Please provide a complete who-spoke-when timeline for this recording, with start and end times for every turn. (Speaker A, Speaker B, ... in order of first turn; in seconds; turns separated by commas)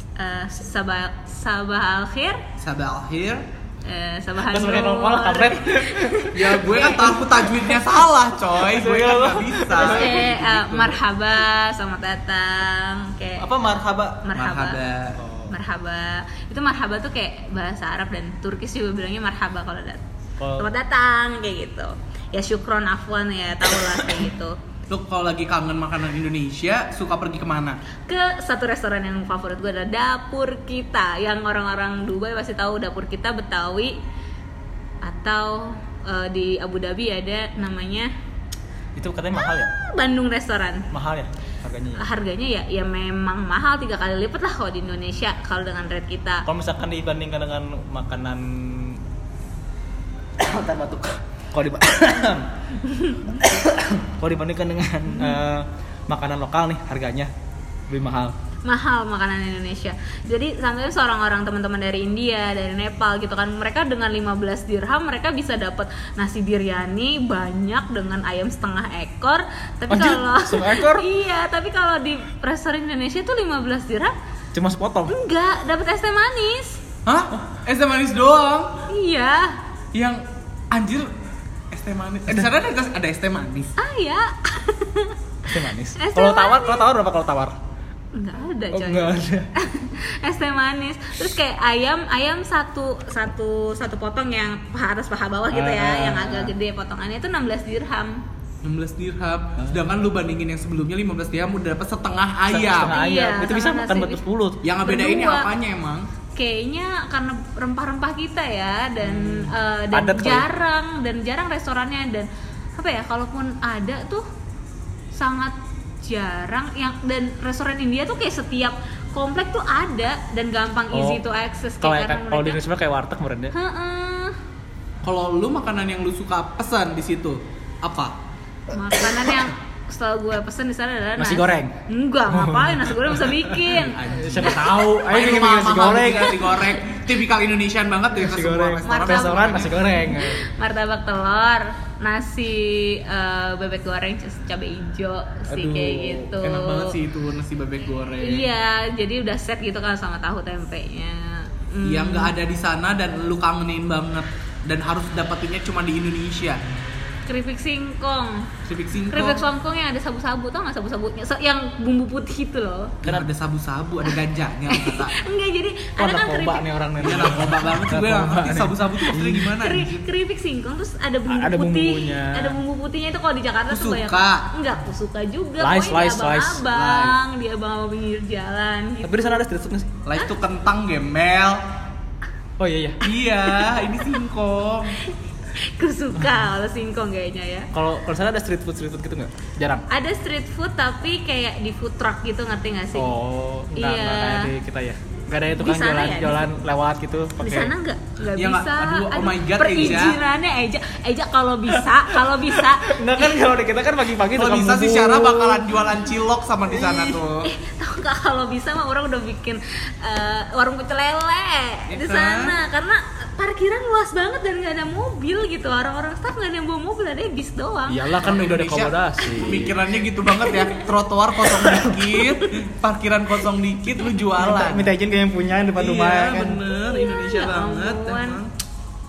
Speaker A: 0.2-2.4, Speaker B: 2.6-3.4, Speaker A: 3.8-7.2, Speaker C: 4.4-8.0, Speaker B: 6.3-11.0, Speaker C: 8.5-10.3, Speaker A: 9.8-13.5, Speaker C: 13.4-14.2, Speaker A: 14.2-14.8, Speaker B: 14.3-15.2, Speaker C: 15.2-15.5, Speaker A: 15.5-20.0, Speaker C: 20.4-20.7, Speaker A: 20.6-24.6, Speaker B: 24.9-27.8, Speaker A: 28.1-34.0, Speaker A: 35.0-38.1, Speaker C: 39.0-39.7, Speaker A: 39.3-40.9, Speaker C: 40.9-42.0, Speaker A: 42.0-46.5, Speaker C: 46.5-49.0, Speaker C: 50.4-52.5, Speaker A: 52.8-53.2, Speaker C: 53.2-57.3, Speaker C: 57.9-58.3, Speaker A: 58.6-74.2, Speaker C: 69.9-71.0, Speaker C: 74.5-75.1, Speaker A: 75.1-76.8, Speaker B: 77.0-78.8, Speaker A: 78.9-79.6, Speaker B: 79.9-81.1, Speaker B: 81.7-83.7, Speaker A: 83.8-85.2, Speaker C: 85.4-87.6, Speaker A: 86.0-86.8, Speaker A: 88.1-98.2, Speaker C: 88.7-89.5, Speaker C: 95.5-96.5, Speaker B: 98.6-102.9, Speaker C: 102.5-104.6, Speaker A: 102.9-104.2, Speaker B: 104.6-106.1, Speaker A: 104.8-105.5, Speaker A: 106.3-114.2, Speaker C: 109.9-110.5, Speaker A: 115.1-122.6, Speaker C: 120.9-121.2, Speaker C: 121.8-123.5, Speaker A: 123.5-124.4, Speaker B: 125.0-128.1, Speaker A: 128.7-134.5, Speaker C: 131.2-131.7, Speaker C: 132.3-133.5, Speaker B: 133.7-139.7, Speaker C: 134.1-136.5, Speaker C: 138.1-140.5, Speaker A: 138.8-146.9, Speaker C: 145.5-146.1, Speaker B: 145.7-148.5, Speaker A: 148.2-152.3, Speaker B: 151.8-156.6, Speaker A: 157.3-158.5, Speaker B: 158.6-159.4, Speaker A: 159.1-163.0, Speaker B: 163.0-165.1, Speaker A: 164.7-166.7, Speaker C: 166.0-169.5, Speaker B: 167.0-170.0, Speaker A: 169.4-179.4, Speaker C: 171.3-172.6, Speaker B: 173.7-174.5, Speaker C: 175.6-176.7, Speaker B: 176.7-177.1, Speaker C: 179.0-179.9, Speaker B: 180.0-181.6, Speaker C: 182.6-183.0, Speaker B: 183.0-185.0, Speaker A: 183.6-184.1, Speaker A: 185.0-187.7, Speaker C: 187.7-189.8, Speaker A: 189.9-193.1, Speaker C: 192.9-197.7, Speaker A: 193.7-194.5, Speaker A: 195.6-196.4, Speaker A: 197.4-203.4, Speaker B: 198.3-200.2, Speaker C: 201.7-205.7, Speaker B: 204.3-207.5, Speaker A: 207.4-218.1, Speaker B: 211.9-212.5, Speaker C: 217.9-219.8, Speaker B: 218.2-224.9, Speaker A: 220.4-220.9, Speaker A: 221.6-222.2, Speaker C: 224.4-226.6, Speaker B: 225.8-228.5, Speaker A: 226.7-228.4